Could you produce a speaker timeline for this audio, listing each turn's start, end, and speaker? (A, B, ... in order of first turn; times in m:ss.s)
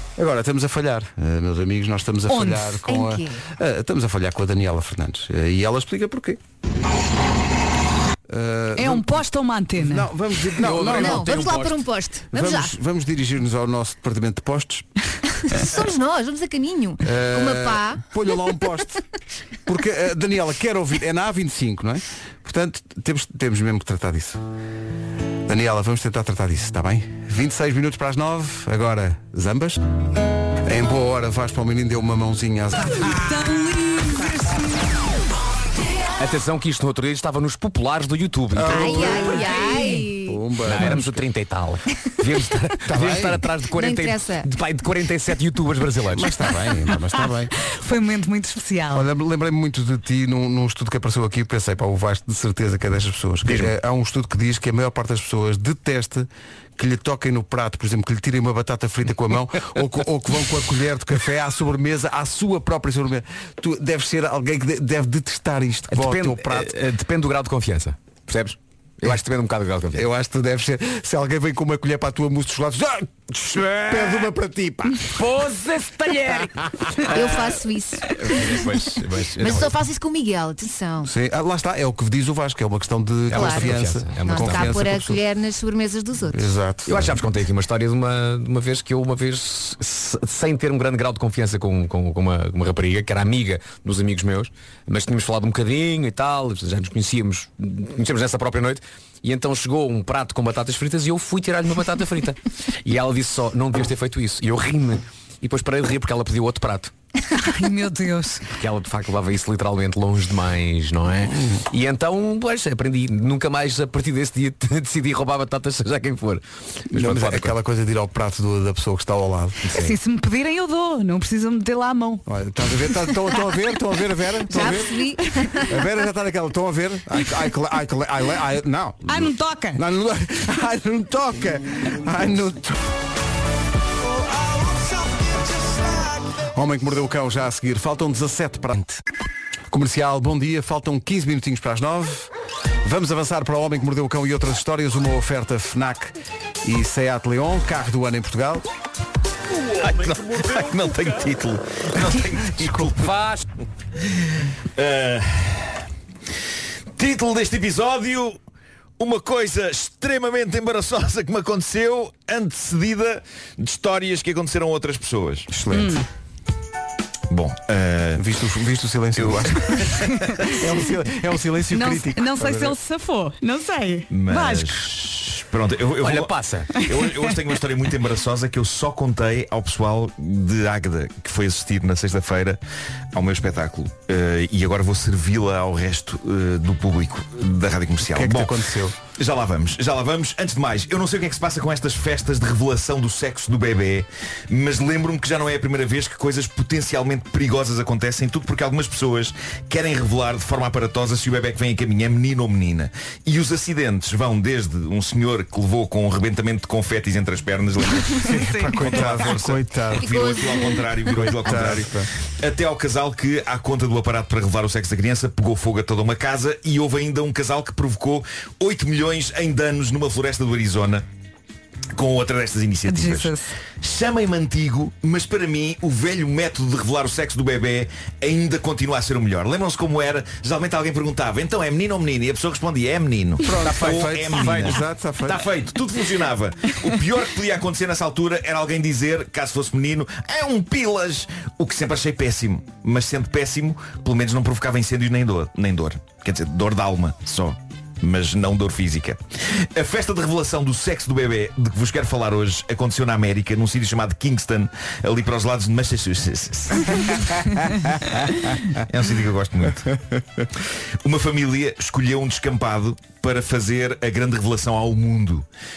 0:00.2-0:06.4 A
0:02.3-0:02.8 B
0:02.9-0:03.4 C
0:08.3-0:09.2 A
0:08.8-0:10.1 B
0:09.8-0:11.6 A
0:10.6-0:11.8 D
0:10.7-0:12.8 C
0:12.3-0:14.9 A
0:15.4-0:18.0 C
0:17.0-0:19.0 A
0:19.6-0:24.4 A
0:25.5-0:29.8 A
0:30.6-0:33.3 A
0:33.0-0:34.7 B
0:36.2-0:39.4 D
0:38.5-0:41.2 A
0:38.7-0:40.4 C
0:39.4-0:40.0 B
0:40.6-0:46.3 D
0:42.8-0:43.5 A
0:43.7-0:44.5 C
0:46.1-0:47.6 A
0:47.7-0:49.1 B
0:48.9-1:06.7 A
1:05.9-1:10.0 D
1:09.9-1:15.1 A
1:13.6-1:14.3 D
1:15.0-1:17.4 D
1:17.1-1:18.5 C
1:18.1-1:19.8 D
1:19.4-1:21.1 C
1:21.0-1:25.2 A
1:23.3-1:24.8 D
1:23.3-1:26.5 C
1:26.3-1:27.2 A
1:26.8-1:46.9 D
1:47.4-1:48.4 B
1:48.5-1:57.5 D
1:51.3-1:51.6 A
1:56.9-1:59.6 A
1:59.6-2:00.0 D
1:59.7-2:02.2 B
2:02.3-2:12.8 A
2:04.5-2:05.7 C
2:09.0-2:09.8 B
2:16.4-2:19.0 A
2:19.7-2:22.3 A
2:22.8-2:28.7 A
2:29.8-2:33.2 E
2:32.5-2:32.9 A
2:33.0-2:33.4 D
2:34.8-2:35.8 E
2:37.0-2:38.4 E
2:39.0-2:45.5 E
2:45.5-2:46.0 A
2:45.7-2:46.0 B
2:47.3-2:48.2 E
2:48.2-2:52.8 A
2:49.2-2:50.1 E
2:51.7-2:54.9 B
2:54.1-3:02.6 E
2:56.0-2:56.8 D
2:56.8-2:57.1 B
3:03.1-3:08.5 E
3:08.0-3:09.0 A
3:09.2-3:41.0 E
3:28.2-3:30.1 A
3:28.3-3:28.8 B
3:30.0-3:31.4 C
3:31.1-3:32.1 A
3:42.0-4:17.6 E
3:42.8-3:43.5 B
3:53.4-3:55.4 A
3:53.6-3:54.8 D
4:18.7-4:19.9 E
4:21.0-4:25.4 E